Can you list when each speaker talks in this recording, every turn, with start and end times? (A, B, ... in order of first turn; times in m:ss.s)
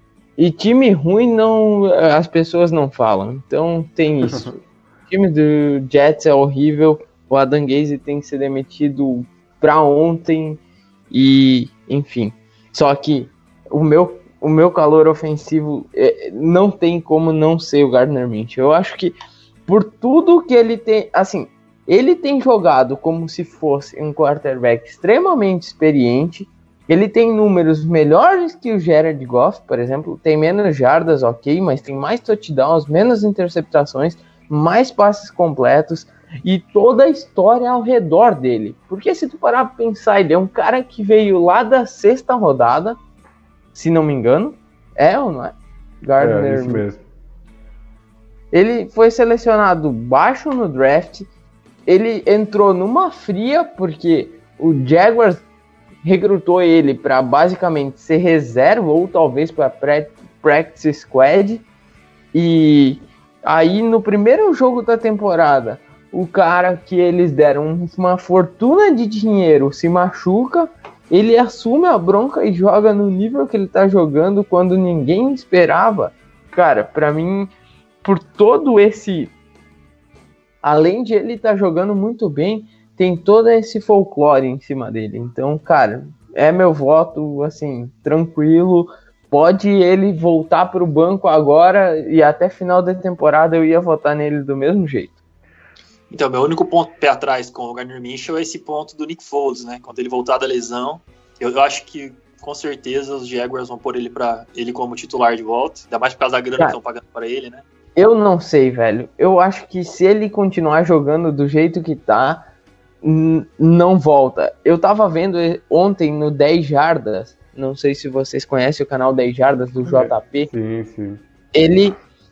0:00.4-0:04.6 A
0:04.2-0:04.6 B
0:05.1-0:43.0 A
0:43.7-0:46.8 A
0:46.2-0:47.0 B
0:48.5-0:51.3 A
0:51.8-0:55.4 A
0:56.0-1:01.6 A
1:02.3-1:17.5 A
1:18.0-1:19.3 A
1:20.6-1:35.2 A
1:36.1-1:47.6 C
1:48.0-1:52.4 A
1:53.0-2:00.5 A
1:59.8-2:01.2 B
2:01.5-2:02.0 A